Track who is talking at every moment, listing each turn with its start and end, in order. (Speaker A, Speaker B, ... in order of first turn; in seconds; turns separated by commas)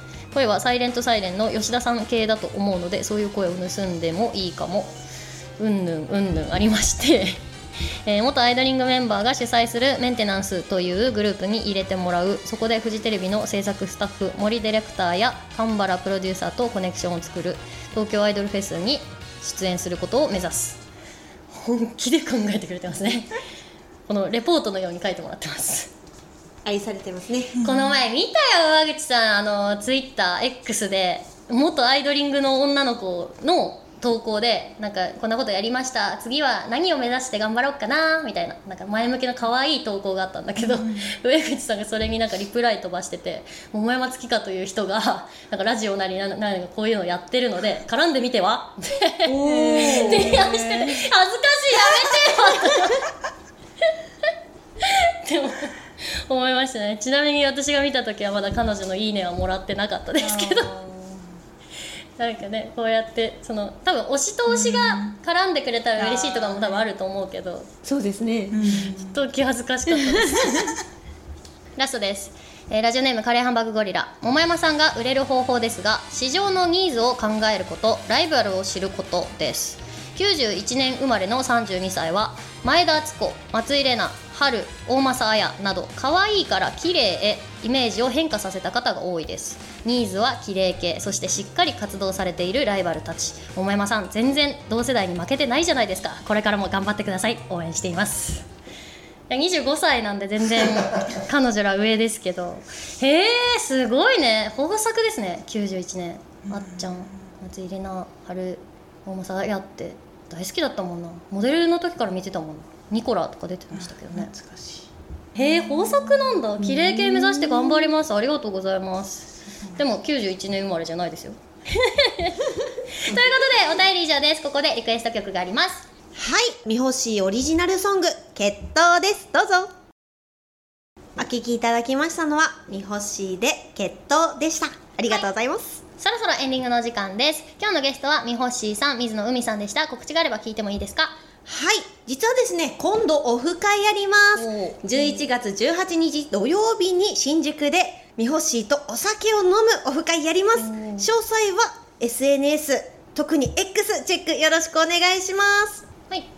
Speaker A: 0.3-4.9, Speaker A: 5.6-7.4, Speaker A: 8.0-20.8, Speaker A: 21.5-23.3, Speaker A: 24.1-25.9, Speaker B: 26.6-27.6, Speaker C: 27.6-28.0, Speaker A: 27.6-53.1, Speaker C: 40.6-41.1, Speaker B: 49.2-50.4, Speaker C: 49.4-51.1, Speaker A: 54.8-60.7, Speaker C: 60.2-61.2, Speaker A: 62.2-67.7, Speaker C: 64.5-65.2, Speaker C: 66.0-66.8, Speaker B: 67.8-68.6, Speaker C: 68.5-69.2, Speaker A: 68.6-70.6, Speaker B: 70.0-70.3, Speaker C: 70.3-70.8, Speaker A: 71.8-98.4, Speaker A: 99.3-114.3, Speaker C: 106.5-107.0, Speaker C: 113.7-117.0, Speaker A: 115.3-122.4, Speaker A: 122.9-125.8, Speaker B: 126.1-129.7, Speaker B: 131.2-135.8, Speaker A: 136.0-141.2, Speaker B: 141.4-155.8, Speaker A: 144.4-145.2, Speaker A: 150.6-151.1